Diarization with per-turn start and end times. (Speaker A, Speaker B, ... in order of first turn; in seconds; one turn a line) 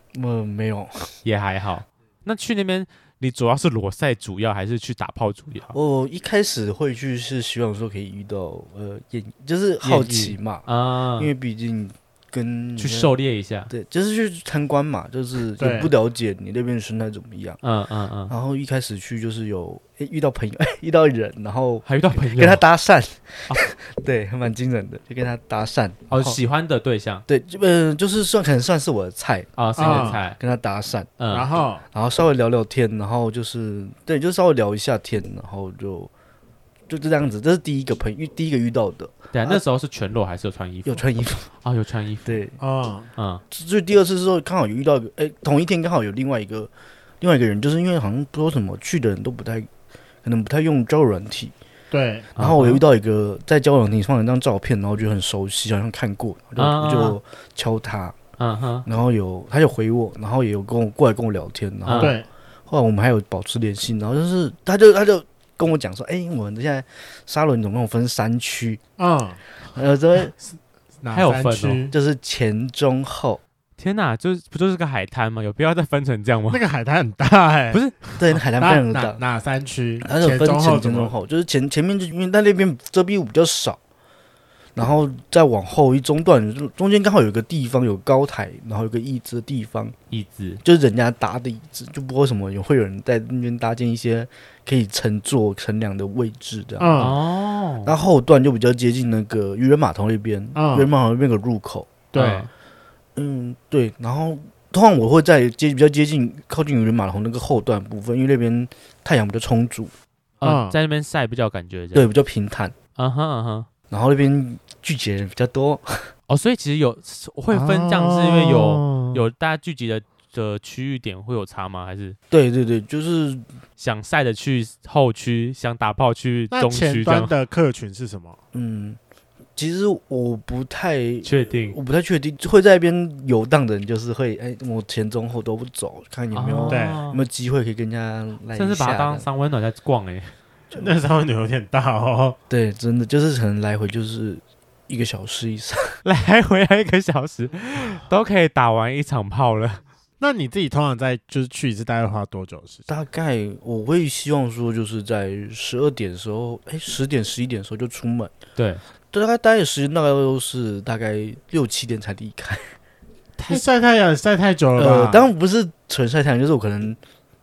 Speaker A: 0.1-1.1
Speaker B: 1.2-5.7
Speaker A: 5.7-13.1
Speaker B: 9.8-11.3
Speaker B: 12.8-13.7
Speaker A: 13.7-17.6
Speaker C: 15.6-15.9
Speaker B: 17.6-18.3
Speaker A: 18.3-26.4
Speaker B: 21.9-22.6
Speaker B: 26.1-27.2
Speaker A: 27.3-31.1
Speaker B: 29.6-30.4
Speaker C: 29.8-30.2
Speaker B: 31.2-31.5
Speaker C: 31.3-31.8
Speaker A: 31.9-36.1
Speaker A: 36.9-39.6
Speaker B: 39.3-41.0
Speaker A: 40.9-41.5
Speaker B: 41.6-42.4
Speaker A: 42.2-42.6
Speaker C: 42.6-43.1
Speaker B: 43.2-43.4
Speaker A: 43.5-49.7
Speaker A: 50.2-51.5
Speaker C: 51.9-52.3
Speaker A: 52.4-58.2
Speaker B: 52.4-52.8
Speaker B: 56.6-57.2
Speaker B: 58.4-58.9
Speaker A: 58.9-68.8
Speaker B: 61.9-62.1
Speaker C: 62.0-62.3
Speaker C: 69.0-69.4
Speaker A: 69.8-70.3
Speaker C: 70.5-71.9
Speaker B: 71.1-71.9
Speaker A: 71.9-73.4
Speaker B: 73.8-76.6
Speaker C: 76.5-81.1
Speaker A: 78.2-79.2
Speaker A: 80.0-83.8
Speaker A: 84.8-90.0
Speaker B: 90.1-90.6
Speaker A: 90.6-97.0
Speaker C: 96.8-97.2
Speaker B: 97.0-97.9
Speaker A: 97.8-101.9
Speaker C: 100.5-100.9
Speaker C: 102.1-102.5
Speaker B: 102.2-102.5
Speaker A: 103.2-109.9
Speaker B: 110.4-112.1
Speaker C: 110.4-110.8
Speaker A: 112.0-112.8
Speaker B: 113.0-113.7
Speaker A: 113.9-116.1
Speaker B: 116.3-122.2
Speaker C: 117.5-119.2
Speaker A: 122.3-123.5
Speaker B: 123.8-127.3
Speaker C: 126.5-128.4
Speaker A: 128.5-129.0
Speaker A: 129.6-139.3
Speaker B: 131.2-131.8
Speaker B: 136.3-137.2
Speaker C: 136.7-137.0
Speaker B: 138.5-140.3
Speaker C: 140.8-142.4
Speaker A: 142.5-146.0
Speaker B: 146.0-149.8
Speaker C: 150.2-152.8
Speaker A: 152.9-158.3
Speaker A: 159.1-162.7
Speaker C: 163.4-165.2
Speaker A: 164.8-167.0